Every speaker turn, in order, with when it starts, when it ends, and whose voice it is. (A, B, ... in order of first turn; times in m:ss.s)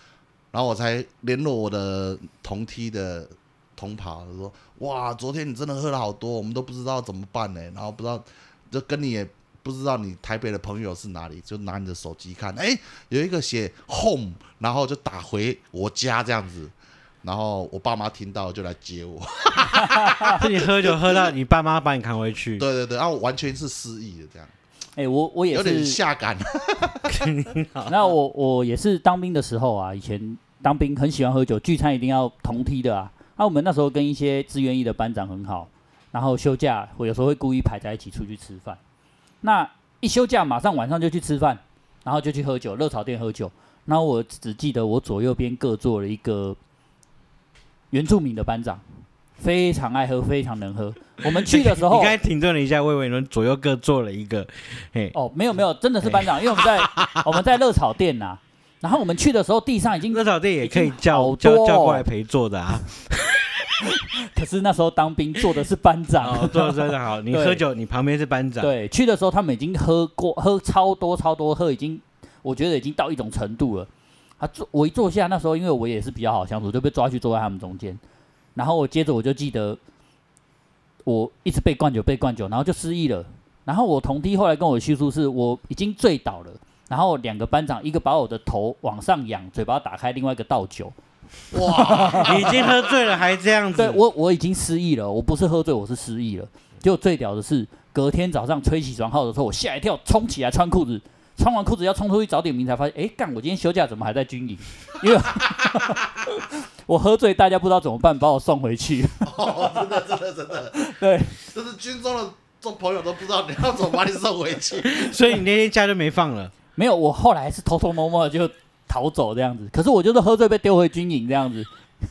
0:00.5-0:21.3 A
0:19.8-0:20.3 B
0:20.3-0:22.6 C
0:22.6-0:24.5 A
0:25.0-0:26.0 B
0:25.5-0:27.2 A
0:27.1-0:28.1 C
0:27.9-0:38.8 B
0:39.4-0:46.6 B
0:47.9-0:48.8 B
0:49.4-0:52.1 B
0:51.3-0:55.1 C
0:55.1-1:02.0 B
1:00.1-1:03.8 C
1:03.8-1:07.6 B
1:06.2-1:08.7 C
1:08.6-1:13.9 B
1:14.4-1:18.0 B
1:18.6-1:19.8 B
1:21.0-1:30.9 B
1:31.5-1:32.9 A
1:31.6-1:32.5 B
1:32.2-1:34.0 C
1:33.8-1:49.8 B
1:49.2-1:50.8 A
1:50.7-1:51.3 B
1:51.4-1:55.1 A
1:54.8-1:56.5 C
1:56.8-2:01.7 B